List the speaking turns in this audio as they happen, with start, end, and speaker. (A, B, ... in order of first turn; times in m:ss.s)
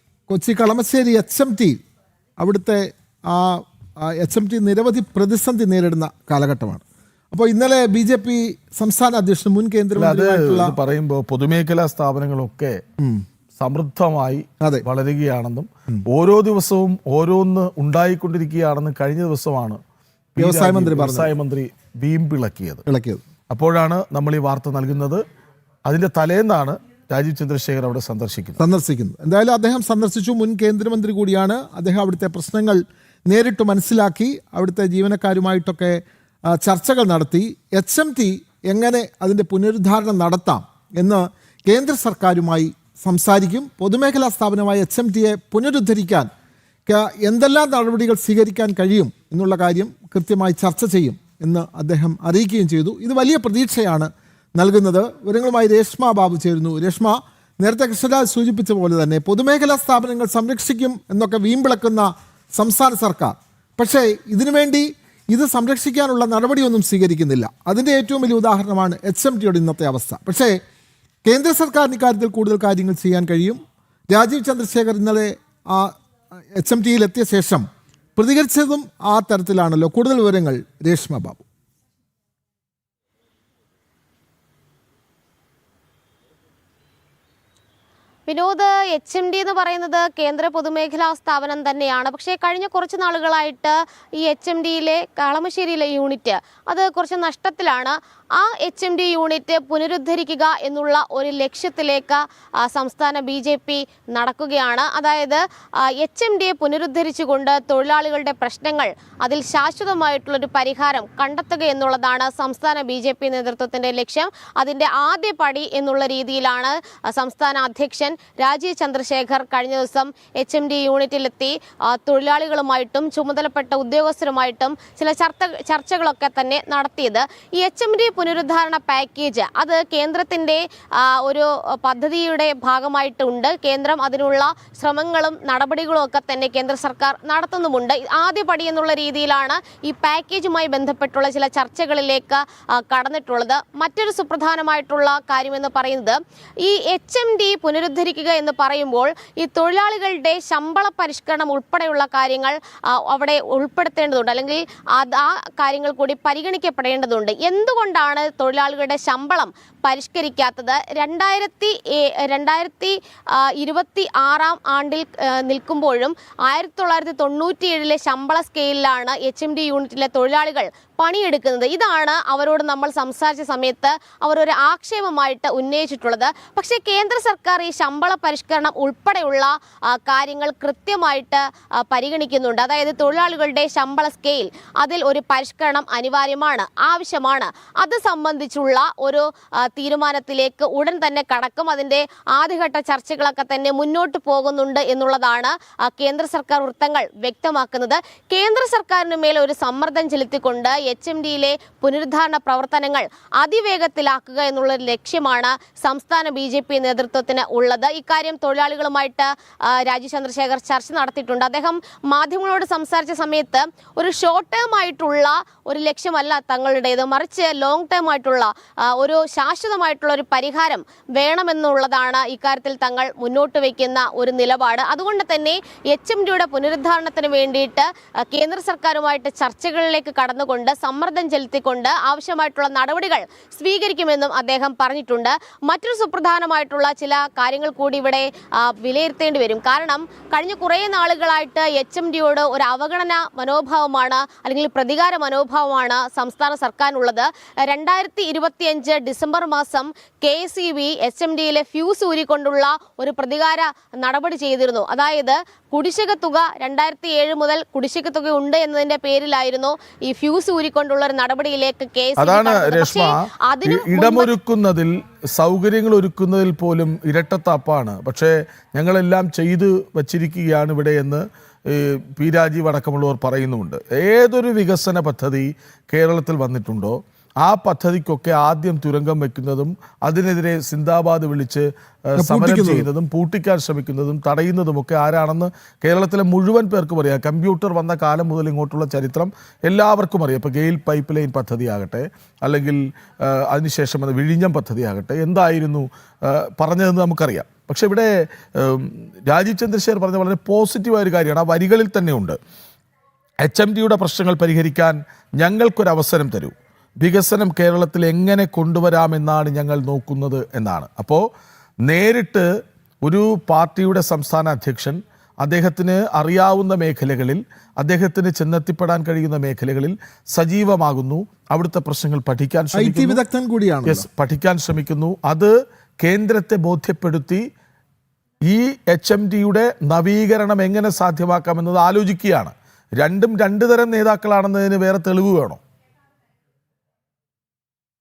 0:00.3-0:01.8 A
0:02.4-0:10.8 A
0:10.0-0:12.8 B
0:13.0-0:13.2 A
0:13.6-0:19.8 B
0:20.4-0:22.8 B
0:20.4-0:21.3 A
0:22.9-0:23.2 A
0:23.5-0:25.2 B
0:25.8-0:28.6 B
0:28.6-0:46.3 A
0:46.9-1:10.6 A
1:11.2-1:15.9 A
1:16.6-1:21.5 A
1:28.3-4:24.3 C
4:22.2-5:02.4 B
4:42.2-4:42.9 A
5:03.4-5:11.3 B
5:11.8-5:12.5 B
5:13.0-5:23.2 B
5:22.8-5:24.1 A
5:23.8-5:27.4 B
5:28.5-5:35.6 B